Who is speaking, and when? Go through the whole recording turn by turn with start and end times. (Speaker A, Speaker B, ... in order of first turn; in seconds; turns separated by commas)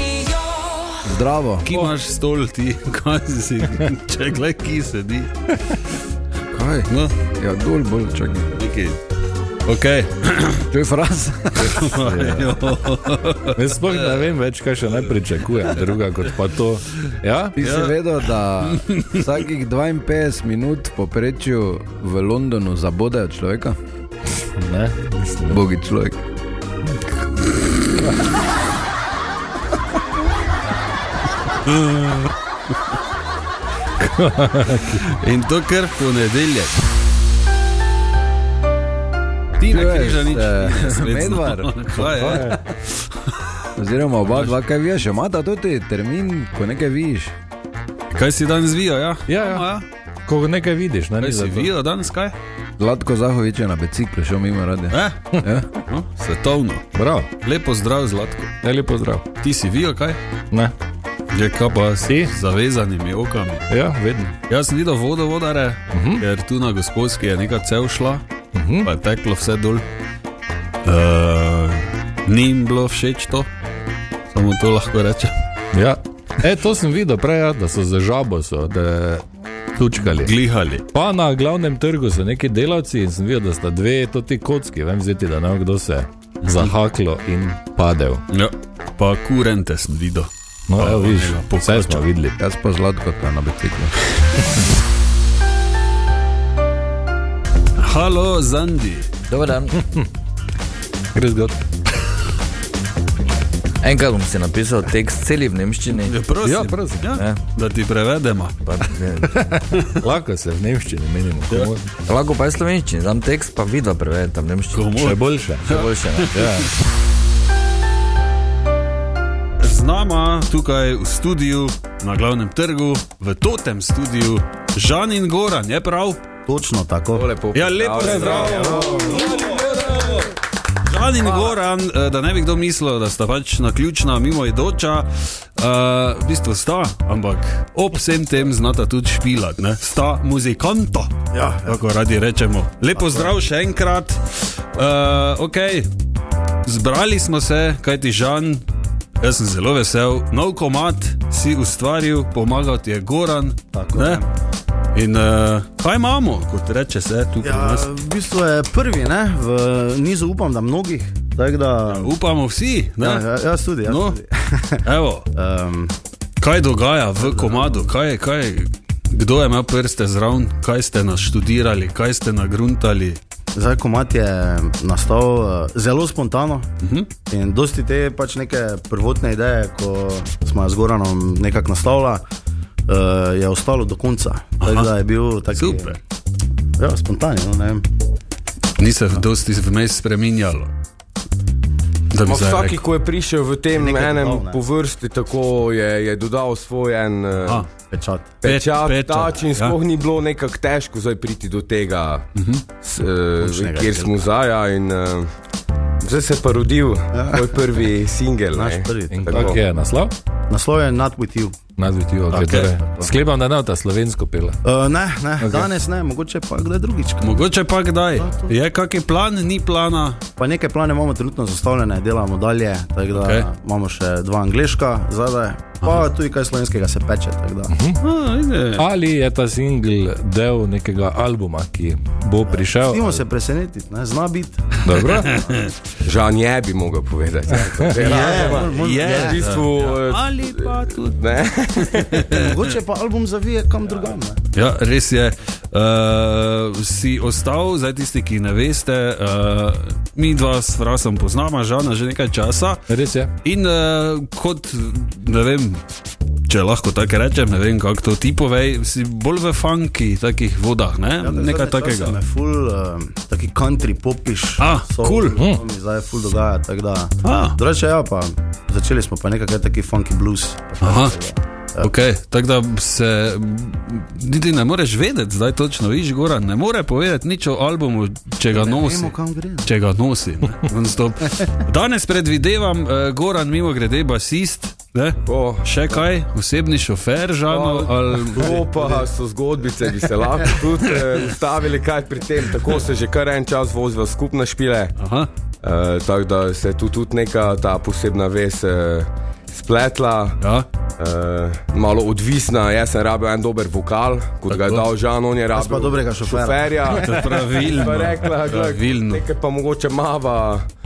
Speaker A: 1.0-1.7, Speaker B: 1.6-5.3, Speaker A: 6.5-8.5, Speaker B: 6.9-7.2, Speaker B: 8.5-9.0, Speaker B: 9.7-10.7, Speaker A: 10.7-12.6, Speaker B: 11.6-14.3, Speaker C: 13.5-17.6, Speaker B: 15.7-16.0, Speaker A: 17.6-23.8, Speaker B: 17.6-18.1, Speaker B: 18.6-19.3, Speaker C: 24.4-25.6, Speaker A: 25.5-26.2, Speaker B: 31.6-32.3, Speaker C: 34.0-35.0, Speaker B: 34.8-36.8, Speaker B: 39.6-42.7, Speaker A: 39.7-42.5, Speaker C: 42.3-42.6, Speaker A: 43.8-47.4, Speaker B: 44.3-44.5, Speaker B: 48.1-49.9, Speaker C: 49.3-49.7, Speaker C: 50.3-51.7, Speaker B: 51.2-52.4, Speaker A: 52.8-55.7, Speaker B: 54.9-56.8, Speaker C: 56.9-57.3, Speaker B: 57.4-58.5, Speaker C: 58.6-59.2, Speaker B: 59.4-60.2, Speaker B: 61.3-63.7, Speaker C: 62.0-62.3, Speaker C: 63.7-64.3, Speaker B: 64.5-68.2, Speaker C: 65.9-66.2, Speaker C: 68.5-68.9, Speaker B: 68.8-69.8, Speaker B: 70.8-73.5, Speaker B: 74.3-75.3, Speaker C: 75.7-79.2, Speaker C: 79.8-80.3, Speaker B: 80.2-80.8, Speaker C: 80.9-88.3, Speaker B: 86.4-86.7, Speaker B: 88.3-92.1, Speaker C: 90.7-92.4, Speaker A: 92.4-93.9, Speaker B: 97.8-99.1, Speaker D: 99.3-99.8, Speaker C: 99.7-100.1, Speaker C: 101.1-101.6, Speaker D: 103.8-106.2, Speaker B: 106.0-108.6, Speaker C: 106.4-107.1, Speaker D: 106.7-107.4, Speaker D: 108.6-109.4, Speaker C: 109.3-111.9, Speaker D: 112.1-114.9, Speaker B: 114.7-116.7, Speaker C: 114.9-115.7, Speaker D: 115.6-116.4, Speaker C: 116.3-116.7, Speaker B: 119.6-126.2, Speaker E: 126.5-127.3, Speaker F: 127.1-129.3, Speaker B: 127.5-130.3, Speaker C: 128.0-130.2, Speaker B: 130.9-141.1, Speaker E: 141.3-141.8, Speaker B: 141.7-145.9, Speaker E: 142.9-143.3, Speaker B: 146.7-148.7, Speaker B: 149.2-154.2, Speaker E: 153.7-154.3, Speaker B: 154.9-157.9, Speaker E: 157.4-162.2, Speaker B: 161.9-163.2, Speaker E: 163.0-164.8, Speaker B: 163.9-164.2, Speaker B: 164.8-165.3, Speaker E: 165.3-165.9, Speaker B: 166.4-173.2, Speaker E: 167.2-167.9, Speaker E: 173.5-176.7, Speaker B: 176.8-177.1, Speaker E: 177.3-182.2, Speaker E: 182.9-186.0, Speaker B: 184.6-184.9, Speaker B: 185.5-186.0, Speaker E: 186.8-187.8, Speaker B: 188.8-190.7, Speaker B: 192.1-192.8, Speaker F: 192.2-197.7, Speaker E: 193.7-194.6, Speaker B: 197.4-197.7, Speaker E: 197.9-198.4, Speaker F: 198.4-202.2, Speaker B: 198.4-199.8, Speaker B: 202.3-202.7, Speaker F: 202.8-205.3, Speaker E: 203.4-204.3, Speaker F: 206.0-209.6, Speaker E: 207.1-207.7, Speaker E: 208.5-209.3, Speaker C: 209.1-210.1, Speaker E: 210.5-211.6, Speaker C: 211.8-214.6, Speaker B: 212.3-212.7, Speaker E: 212.6-213.1, Speaker E: 214.6-217.5, Speaker C: 215.4-215.7, Speaker B: 217.2-220.2, Speaker E: 218.1-218.6, Speaker E: 220.4-227.8, Speaker B: 223.1-223.5, Speaker C: 227.7-228.0, Speaker B: 228.0-228.8, Speaker C: 228.8-233.2, Speaker E: 232.5-235.7, Speaker C: 234.8-235.3, Speaker B: 235.0-235.7, Speaker F: 236.0-242.4, Speaker B: 238.0-242.6, Speaker E: 238.0-239.5, Speaker E: 242.3-244.4, Speaker B: 244.6-252.8, Speaker C: 252.9-253.3, Speaker B: 253.4-255.8, Speaker B: 256.5-262.2, Speaker E: 261.2-271.9, Speaker B: 264.6-265.4, Speaker B: 267.2-267.6, Speaker B: 270.8-271.2, Speaker B: 271.8-288.8, Speaker E: 278.5-279.7, Speaker F: 285.2-286.1, Speaker F: 287.5-294.9, Speaker E: 288.5-289.0, Speaker B: 295.0-295.3, Speaker F: 295.6-300.4, Speaker B: 300.4-300.7, Speaker F: 301.0-310.6, Speaker B: 304.5-304.9, Speaker E: 305.5-307.4, Speaker B: 306.9-309.3